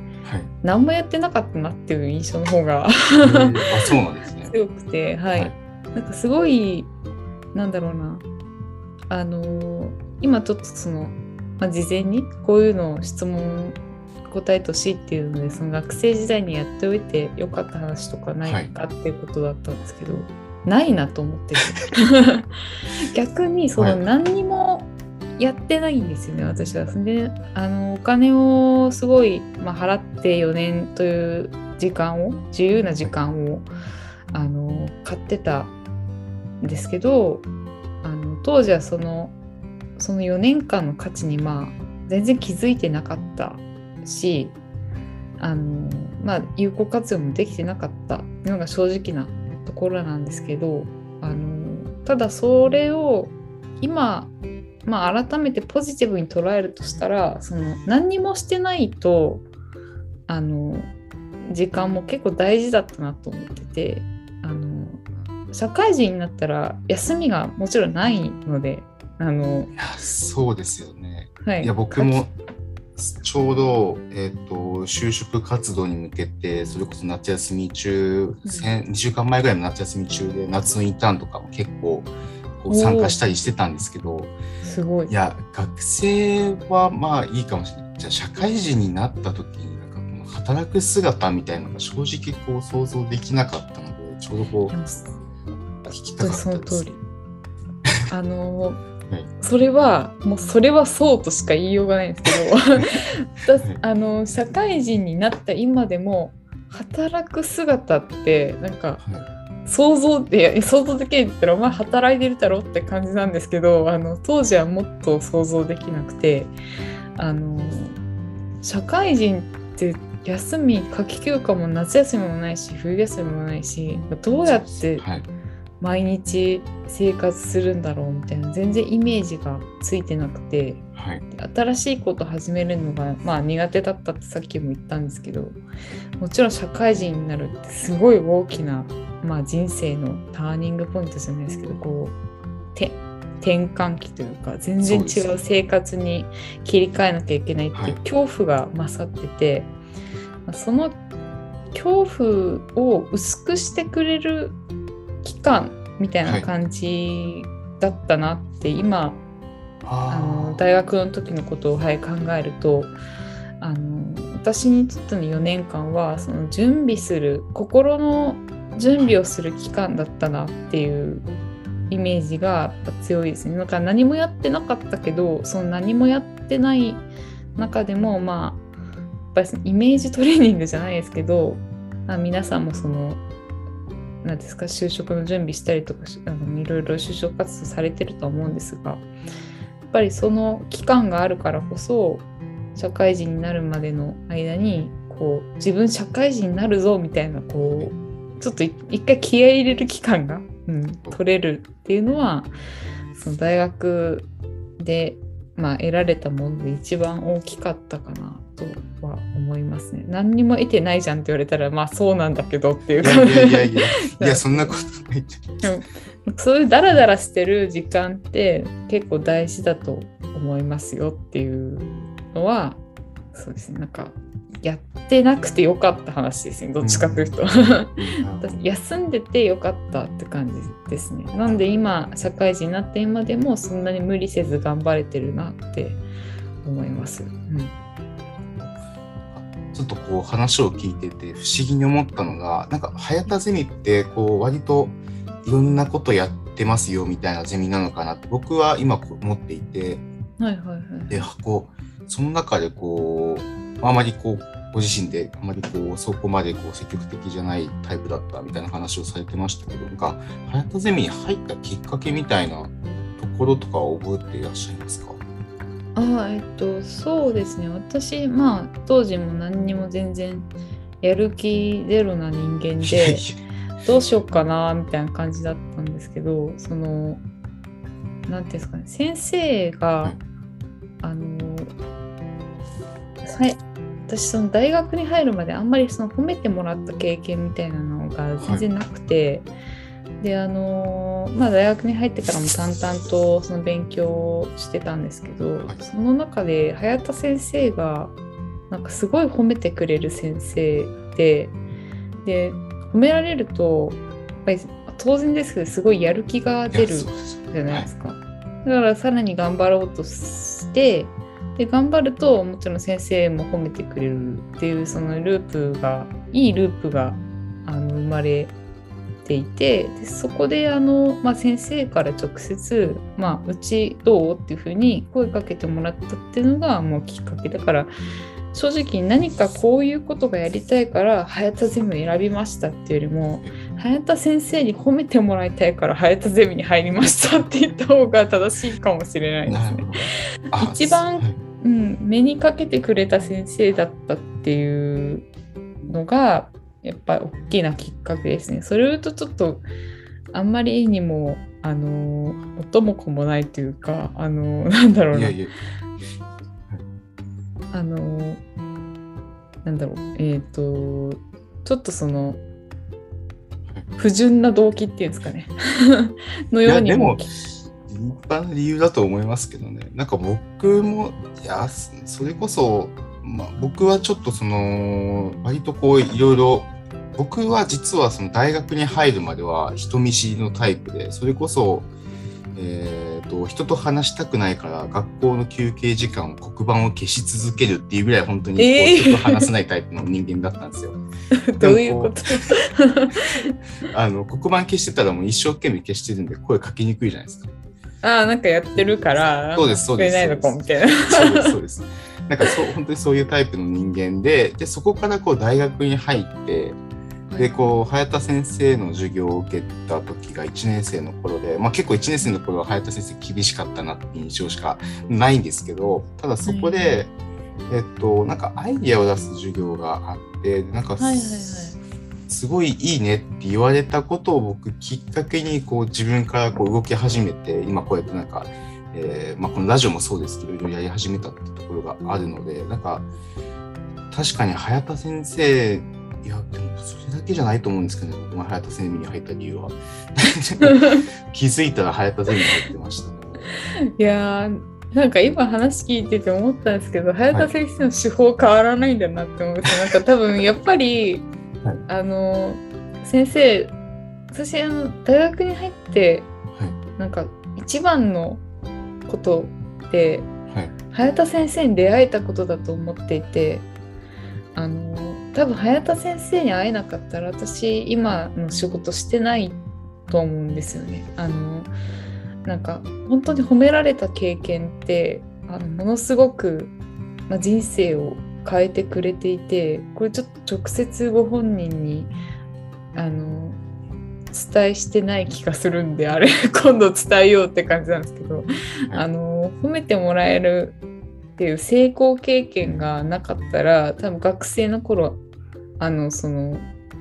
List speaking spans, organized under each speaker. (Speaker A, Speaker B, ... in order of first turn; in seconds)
Speaker A: 0.2-0.5, 3.2-4.5, 18.4-18.7, 69.7-72.3, 73.0-84.3, 85.1-94.8, 95.8-96.9, 109.0-109.3, 124.4-125.3, 130.9-131.2, 144.8-145.3, 159.8-160.6, 197.6-197.9, 213.0-215.6, 226.8-227.2, 228.0-228.6, 239.3-250.0, 251.1-265.2, 272.8-273.4, 288.4-288.6, 306.7-307.9, 339.5-341.4, 355.1-355.5, 366.6-381.9, 382.5-391.0, 391.6-392.5, 393.9-397.5, 398.7-406.8, 407.4-417.1, 417.7-421.6, 422.3-433.1, 434.1-443.5, 492.6-492.9
Speaker B: 0.6-3.6, 4.4-6.9, 7.5-8.2, 9.1-22.5, 23.0-33.7, 34.3-35.7, 36.6-37.5, 38.0-39.3, 40.0-44.5, 45.4-54.3, 54.8-59.4, 60.3-60.9, 61.4-69.7, 71.4-72.2, 82.7-83.2, 84.6-85.1, 94.7-95.1, 96.2-97.0, 98.1-98.8, 99.4-109.0, 109.7-116.5, 117.2-118.0, 118.6-125.0, 125.8-130.8, 131.3-135.6, 136.2-142.2, 142.7-149.7, 150.4-151.0, 151.7-154.6, 155.2-159.2, 160.1-162.9, 163.6-171.3, 171.9-178.6, 179.3-183.2, 184.2-189.1, 189.9-202.5, 203.1-214.8, 215.6-222.8, 223.3-236.0, 236.6-237.7, 250.4-251.3, 265.9-270.5, 271.0-273.3, 273.8-277.2, 278.3-280.2, 281.0-281.7, 283.2-289.5, 290.2-298.1, 298.7-301.6, 302.2-318.5, 319.2-327.9, 328.5-339.9, 340.6-345.3, 345.8-349.6, 350.3-355.4, 357.7-358.4, 359.6-362.4, 364.0-367.3, 388.6-389.5, 391.4-393.5, 398.0-401.6, 407.3-407.7, 416.4-417.0, 421.0-421.8, 440.6-441.0, 444.0-451.2, 451.9-453.7, 454.3-456.3, 457.0-458.4, 459.1-460.3, 460.9-463.7, 464.5-471.7, 472.4-476.7, 477.3-482.1, 482.9-483.6, 484.3-490.8, 491.4-495.2, 495.8-496.7